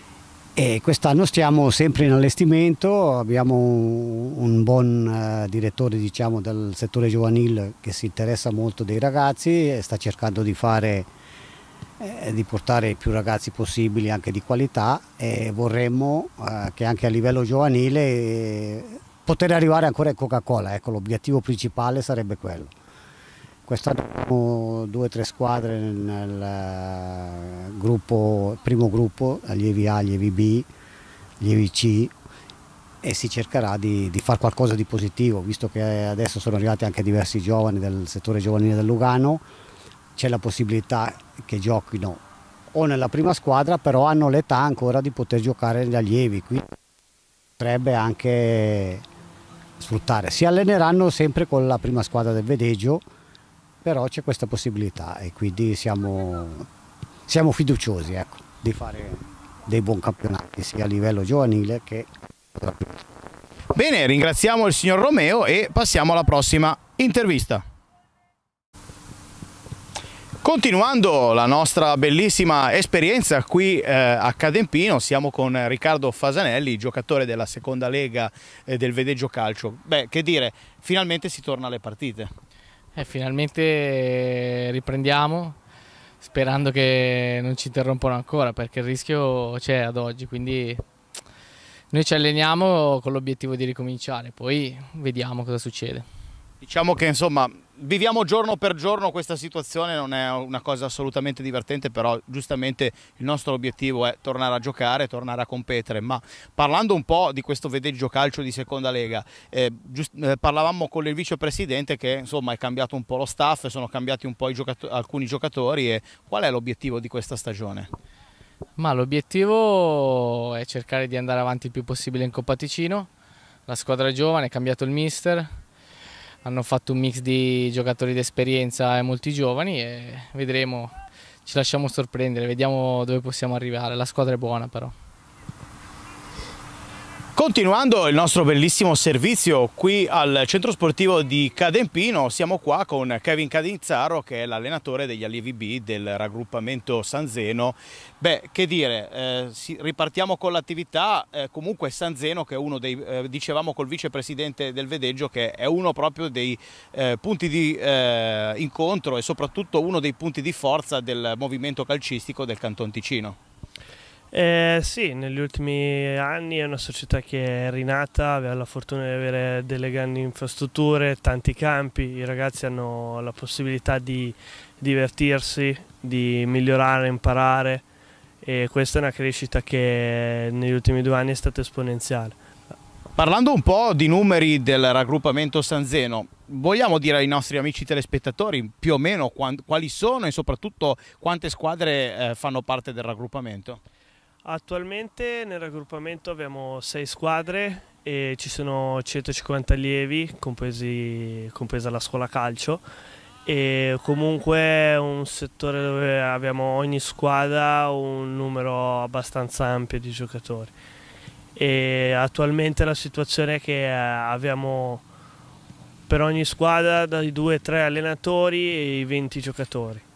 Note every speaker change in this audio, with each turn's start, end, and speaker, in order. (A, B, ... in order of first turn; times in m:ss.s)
0:00.6-0:11.1 A
0:12.0-0:22.7 A
0:23.7-0:30.7 A
0:31.4-0:32.1 A
0:33.0-0:39.4 A
0:40.2-0:42.2 A
0:42.7-0:46.6 A
0:47.6-0:49.0 A
0:49.8-0:53.0 A
0:53.8-0:56.7 A
0:57.3-1:03.1 A
1:03.8-1:07.6 B
1:10.4-1:22.3 B
1:23.0-1:25.6 C
1:26.2-1:30.8 C
1:31.9-1:36.1 C
1:36.6-1:57.9 B
1:58.8-2:03.1 C
2:03.7-2:05.5 C
2:06.4-2:14.9 C
2:17.4-2:43.4 B
2:44.5-2:54.2 D
2:54.8-2:57.8 D
2:58.5-3:00.0 D
3:00.7-3:02.3 D
3:03.2-3:13.8 B
3:14.5-3:21.1 D
3:21.7-3:22.7 D
3:23.5-3:30.6 D
3:31.6-3:34.0 D
3:36.1-3:40.0 D